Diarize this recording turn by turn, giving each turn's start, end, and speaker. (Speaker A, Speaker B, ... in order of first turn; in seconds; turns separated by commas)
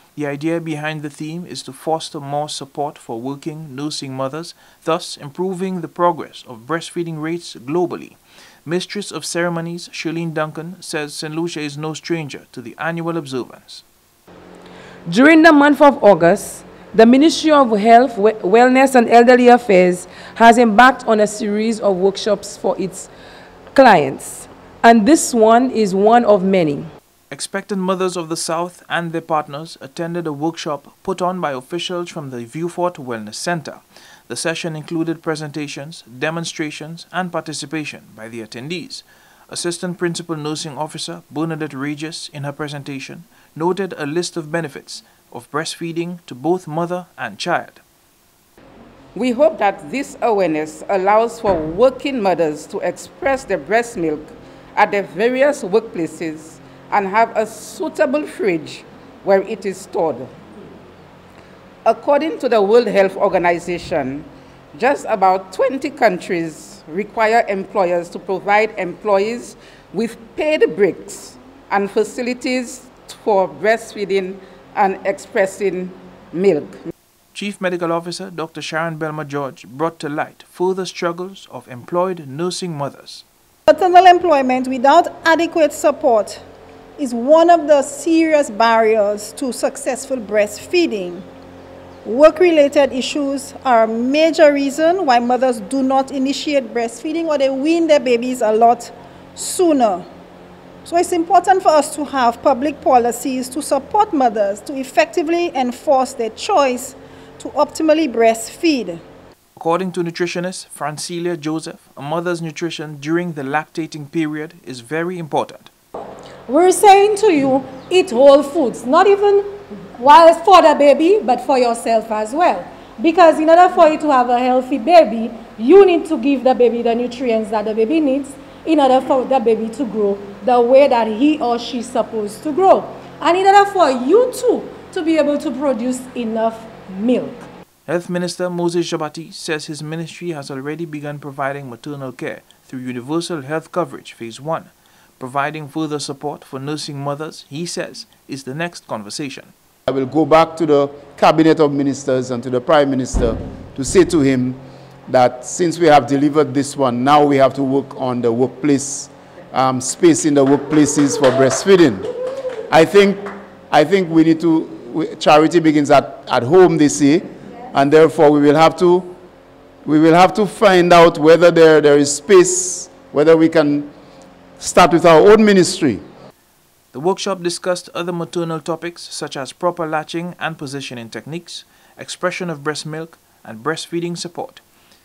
Speaker A: 0.1-13.8, Speaker B: 15.1-23.1, Speaker B: 23.7-26.9, Speaker A: 27.3-47.8, Speaker C: 49.1-60.3, Speaker C: 61.8-76.9, Speaker A: 77.3-83.2, Speaker D: 83.7-86.4, Speaker D: 87.0-91.2, Speaker D: 92.0-100.0, Speaker D: 100.8-109.0, Speaker A: 109.5-115.7, Speaker E: 116.5-137.4, Speaker A: 137.9-149.5, Speaker F: 149.9-162.1, Speaker F: 162.7-169.1, Speaker F: 169.8-173.9, Speaker F: 174.6-176.0, Speaker A: 176.9-184.6